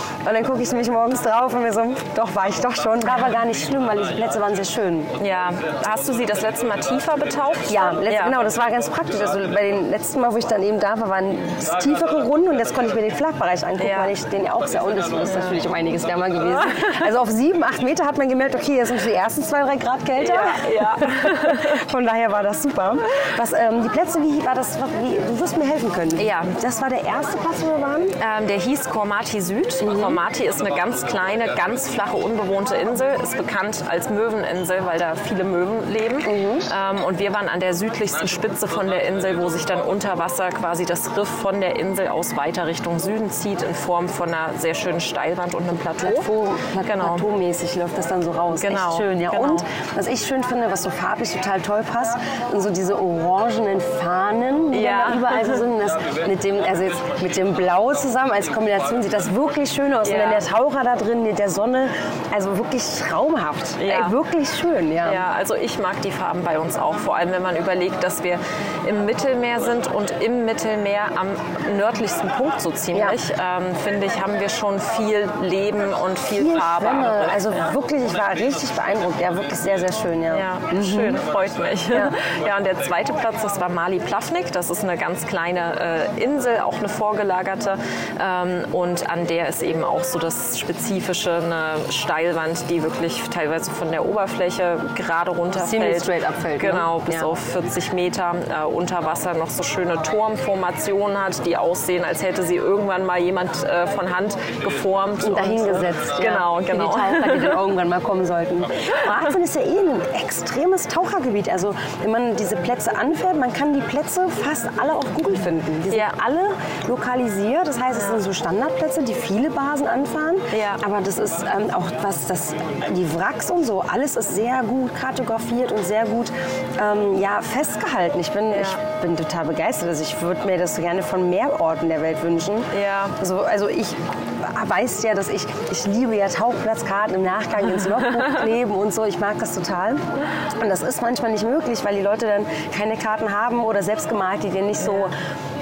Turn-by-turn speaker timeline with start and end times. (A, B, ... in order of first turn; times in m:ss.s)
0:00.2-0:05.1 A
0:05.2-0:08.4 B
0:07.7-0:28.2 A
0:13.8-0:14.1 B
0:20.2-0:21.8 B
0:26.2-0:26.5 B
0:28.2-0:46.3 B
0:29.8-0:30.2 A
0:36.2-0:36.7 A
0:46.0-1:05.2 A
0:46.8-0:47.2 B
0:48.5-0:49.6 B
0:54.7-0:55.6 B
1:00.0-1:00.4 B
1:03.8-1:04.2 B
1:05.0-1:17.6 B
1:12.9-1:13.2 A
1:16.4-1:21.2 A
1:20.3-1:47.6 B
1:35.5-1:37.3 A
1:45.2-2:25.2 A
1:55.9-1:56.2 B
2:00.5-2:00.8 B
2:08.5-2:08.8 B
2:12.7-2:13.2 B
2:18.1-2:18.4 B